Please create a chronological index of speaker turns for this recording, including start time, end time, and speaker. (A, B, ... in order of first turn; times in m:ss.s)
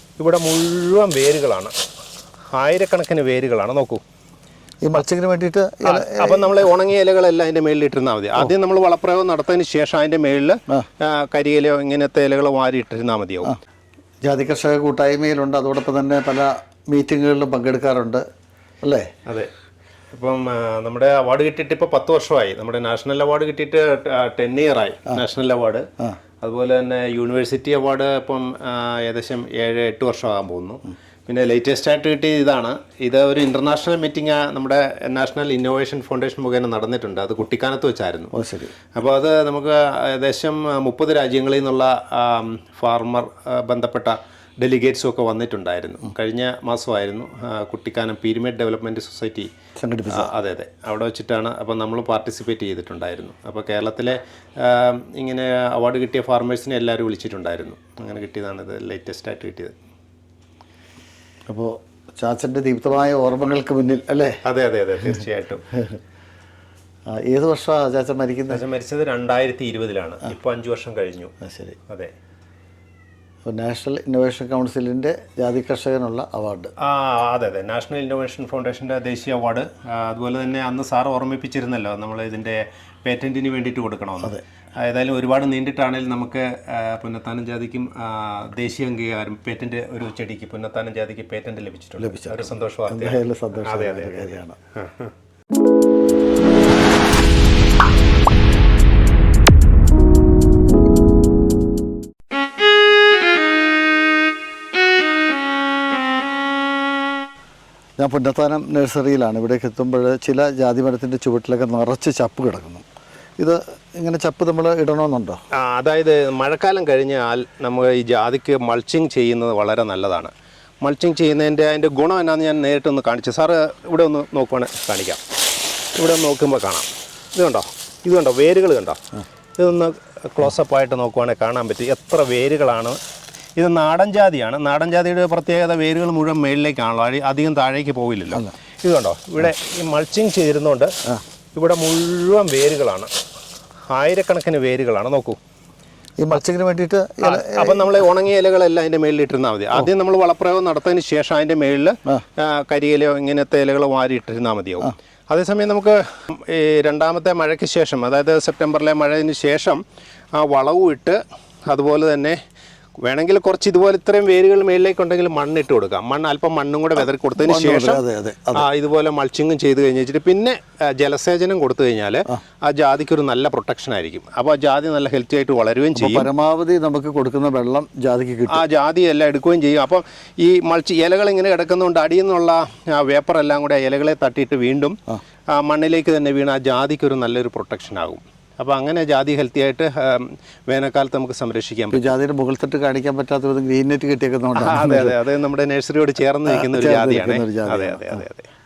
0:00.2-0:01.7 A
0:02.5-0:04.0 A
0:04.8-0:06.7 B
0:05.8-0:13.6 A
0:14.2-0:18.2 B
0:18.8-0:19.1 B
0:19.3-0:19.5 A
0:20.1-0:25.9 A
0:26.4-0:38.3 A
0:38.3-0:38.7 B
0:38.9-0:49.5 A
0:49.8-0:50.3 B
0:50.1-0:59.8 A
1:01.5-1:04.4 B
1:04.4-1:05.7 A
1:07.1-1:08.6 B
1:08.5-1:11.3 A
1:11.4-1:11.8 B
1:13.5-1:16.7 B
1:16.8-1:35.1 A
1:32.0-1:34.6 B
1:48.0-1:52.8 B
1:53.4-1:55.4 B
1:55.5-2:00.3 A
2:00.8-2:05.2 A
2:06.0-2:09.0 A
2:09.6-2:13.0 A
2:13.6-2:21.0 A
2:21.6-2:23.1 A
2:23.9-2:25.4 A
2:26.2-2:28.0 B
2:27.2-2:39.8 A
2:40.4-2:42.4 A
2:43.0-2:48.0 A
2:47.4-2:48.7 B
2:48.5-2:56.3 A
2:56.0-2:58.6 B
2:58.5-3:05.0 A
3:05.5-3:12.1 A
3:11.9-3:15.2 B
3:14.6-3:18.5 A
3:16.5-3:18.2 B